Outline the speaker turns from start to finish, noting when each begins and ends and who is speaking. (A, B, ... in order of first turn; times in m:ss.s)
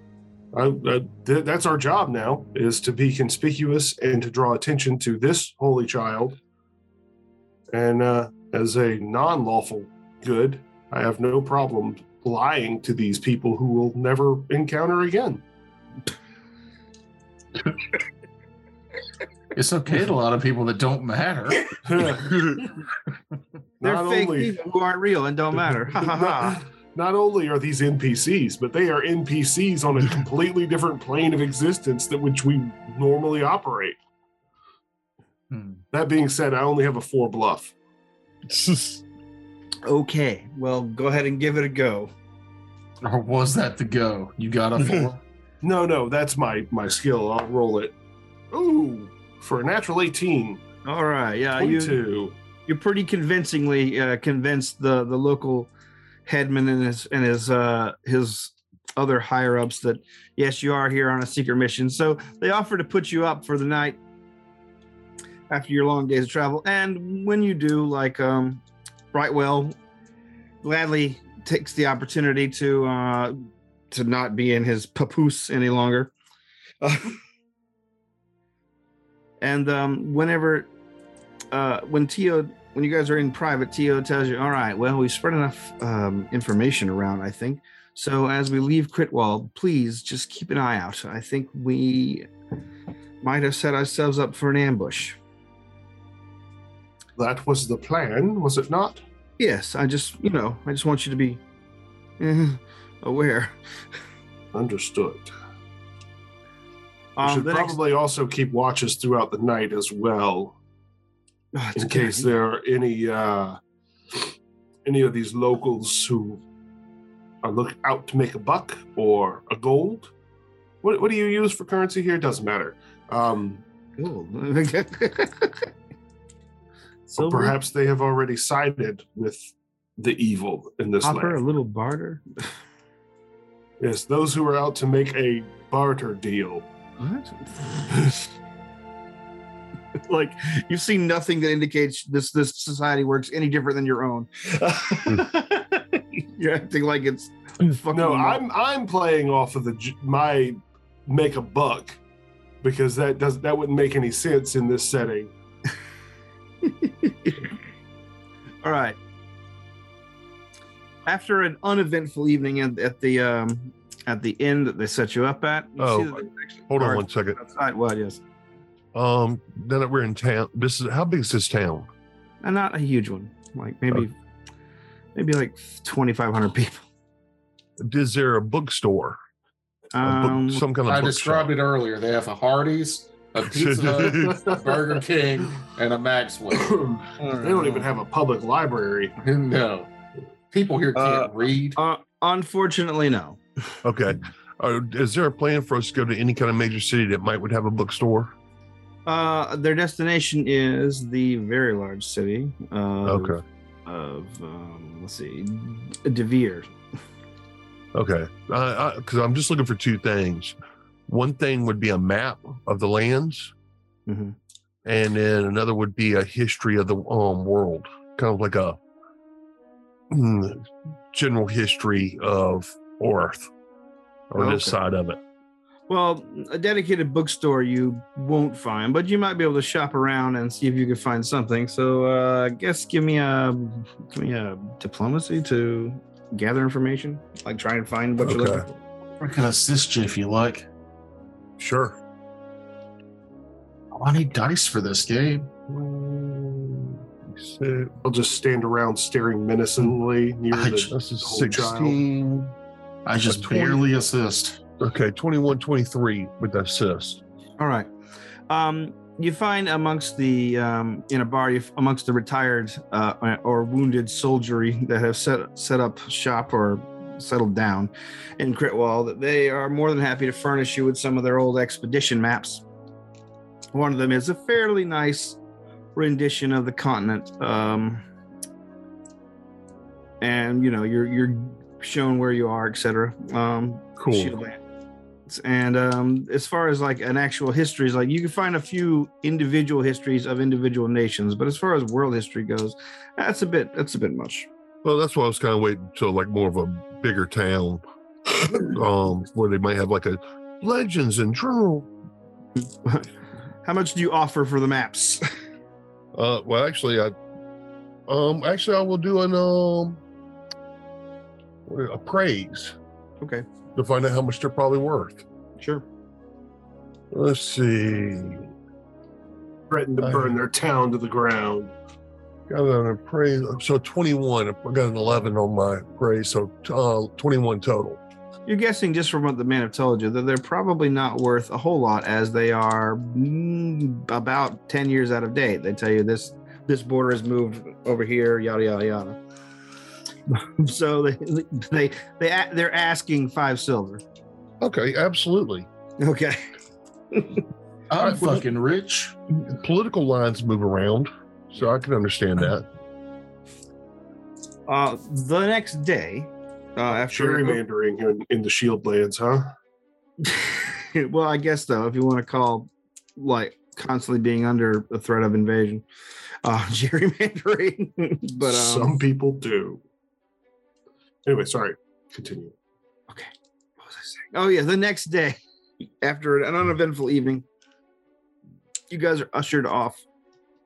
0:00.5-0:06.4 A
0:07.7-0:15.4 A
0:19.5-0:21.8 B
0:21.8-0:22.4 A
0:23.8-0:24.5 A
0:23.8-0:26.6 C
0:26.0-0:34.0 A
0:35.5-0:35.8 B
0:35.9-0:37.7 A
0:38.5-0:39.0 D
0:39.9-0:42.1 C
0:43.0-0:45.2 B
0:44.8-0:45.1 D
0:45.6-0:47.9 A
0:48.5-0:50.6 A
0:50.8-0:52.0 C
0:51.6-0:52.4 A
0:52.6-0:55.7 C
0:56.2-1:04.0 C
1:05.5-1:08.6 C
1:09.1-1:09.8 C
1:10.6-1:16.1 C
1:16.8-1:17.2 C
1:19.4-1:20.7 C
1:21.5-1:32.3 C
1:33.2-1:35.2 C
1:37.2-1:39.0 A
1:39.4-1:41.4 C
1:42.2-1:43.6 C
1:44.5-1:45.3 A
1:47.2-1:47.8 C
1:47.2-1:50.6 A
1:51.6-1:52.3 C
1:51.8-1:53.6 A
1:54.8-1:56.4 A
1:57.4-2:00.1 A
2:00.8-2:03.6 A
2:04.0-2:05.7 C
2:07.1-2:11.4 A
2:07.2-2:07.6 C
2:11.0-2:12.5 C
2:13.8-2:16.6 A
2:17.0-2:17.9 C
2:20.1-2:28.4 C
2:27.9-2:32.0 A
2:32.6-2:35.3 A
2:36.6-2:37.5 C
2:38.6-2:39.0 C
2:41.1-2:48.2 C
2:45.8-2:47.4 D
2:48.9-2:51.9 D
2:52.4-2:54.2 C
2:55.1-2:56.8 C
2:57.8-2:59.2 D
2:59.9-3:00.6 C
3:00.0-3:01.6 D
3:00.9-3:06.8 B
3:03.5-3:04.4 D
3:04.2-3:04.8 A
3:06.5-3:09.1 A
3:07.2-3:07.9 C
3:09.2-3:09.9 B
3:10.5-3:11.8 B
3:10.9-3:13.4 C
3:13.8-3:18.3 D
3:19.1-3:26.7 C
3:23.0-3:23.4 D
3:27.9-3:30.6 D
3:31.1-3:33.5 D
3:34.1-3:34.4 C
3:34.8-3:38.8 D
3:40.1-3:43.5 D
3:44.3-3:45.2 D
3:44.4-3:44.8 C
3:45.9-3:58.8 C
3:58.2-3:58.6 D
3:59.2-4:00.6 B
4:01.6-4:02.0 D
4:03.9-4:05.5 B
4:05.7-4:08.0 D
4:08.0-4:12.0 A
4:10.5-4:10.9 B
4:10.9-4:12.5 D
4:13.1-4:14.6 B
4:13.3-4:13.8 D
4:14.8-4:17.2 D
4:17.6-4:17.9 C
4:18.5-4:32.6 C
4:33.7-4:35.4 C
4:35.9-4:38.0 C
4:40.2-4:44.6 C
4:44.0-4:44.4 D
4:45.3-4:54.5 C
4:54.8-4:57.8 D
4:58.4-5:01.9 D
5:02.6-5:03.1 C
5:03.6-5:05.2 C
5:06.1-5:07.1 D
5:08.1-5:10.0 D
5:11.6-5:12.7 D
5:13.7-5:15.2 D
5:15.6-5:15.8 C
5:17.1-5:18.5 D
5:19.7-5:21.7 A
5:20.0-5:20.4 D
5:22.5-5:28.0 D
5:28.4-5:39.2 C
5:40.3-5:44.0 C
5:44.6-5:45.7 D
5:46.0-5:46.4 C
5:47.1-5:47.4 C
5:47.9-5:49.2 B
5:49.5-5:52.6 D
5:54.7-5:57.6 C
5:57.1-5:59.5 A
6:00.2-6:05.8 C
6:06.4-6:09.0 C
6:08.4-6:09.8 A
6:11.2-6:12.5 A
6:13.1-6:17.4 C
6:18.9-6:20.0 C